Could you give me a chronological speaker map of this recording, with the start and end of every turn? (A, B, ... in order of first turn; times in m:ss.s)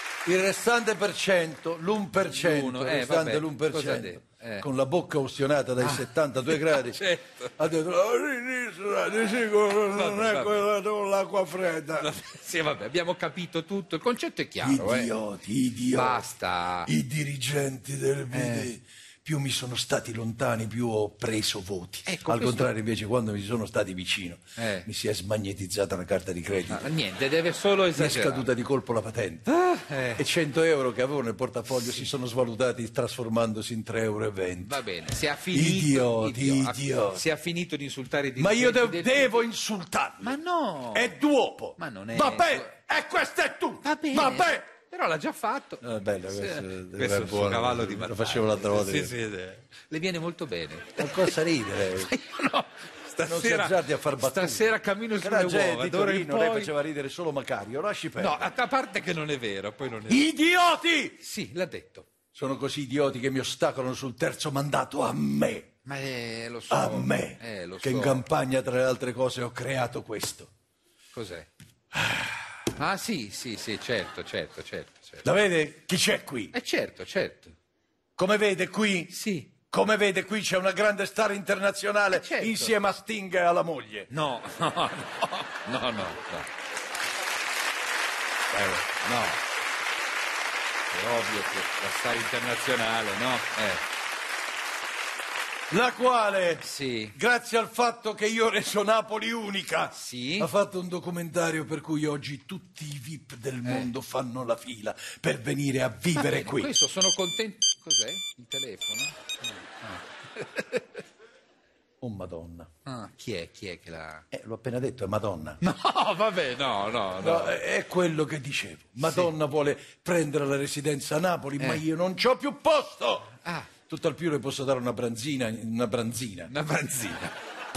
0:00.2-0:07.0 A
0:02.2-0:04.7 B
0:05.8-0:07.5 B
0:07.6-0:12.1 A
0:09.9-0:10.7 B
0:12.0-0:15.1 B
0:14.6-0:16.2 A
0:15.9-0:16.9 B
0:16.8-0:26.9 A
0:18.3-0:18.7 B
0:22.1-0:22.7 B
0:24.6-0:24.9 B
0:26.7-0:28.5 B
0:28.0-0:29.5 A
0:29.5-0:30.2 B
0:30.2-0:34.8 A
0:31.7-0:32.1 B
0:34.6-0:39.4 B
0:35.5-0:37.2 A
0:38.4-0:40.4 A
0:40.2-0:41.1 B
0:40.9-0:44.7 A
0:41.8-0:42.7 B
0:43.8-0:56.7 B
0:45.8-0:49.1 A
0:51.0-0:52.1 A
0:53.2-0:58.5 A
0:58.2-1:00.3 B
1:00.1-1:01.2 A
1:01.2-1:02.1 B
1:02.3-1:05.7 A
1:05.8-1:08.2 B
1:06.7-1:10.5 A
1:11.1-1:11.5 B
1:11.9-1:12.4 A
1:12.7-1:15.3 B
1:15.2-1:16.5 A
1:16.5-1:17.5 B
1:18.2-1:19.2 A
1:19.1-1:19.5 B
1:19.7-1:24.1 A
1:22.1-1:22.7 B
1:24.1-1:26.5 B
1:28.5-1:29.4 B
1:30.9-1:33.8 B
1:35.7-1:46.7 A
1:36.6-1:37.2 B
1:39.9-1:40.5 B
1:43.6-1:43.9 B
1:46.1-1:51.0 B
1:52.0-1:52.7 A
1:52.9-1:54.2 B
1:54.3-1:55.6 A
1:55.6-1:57.6 B
1:57.2-2:03.4 A
1:59.0-1:59.3 B
2:03.4-2:03.7 B
2:03.9-2:06.5 A
2:06.5-2:07.3 B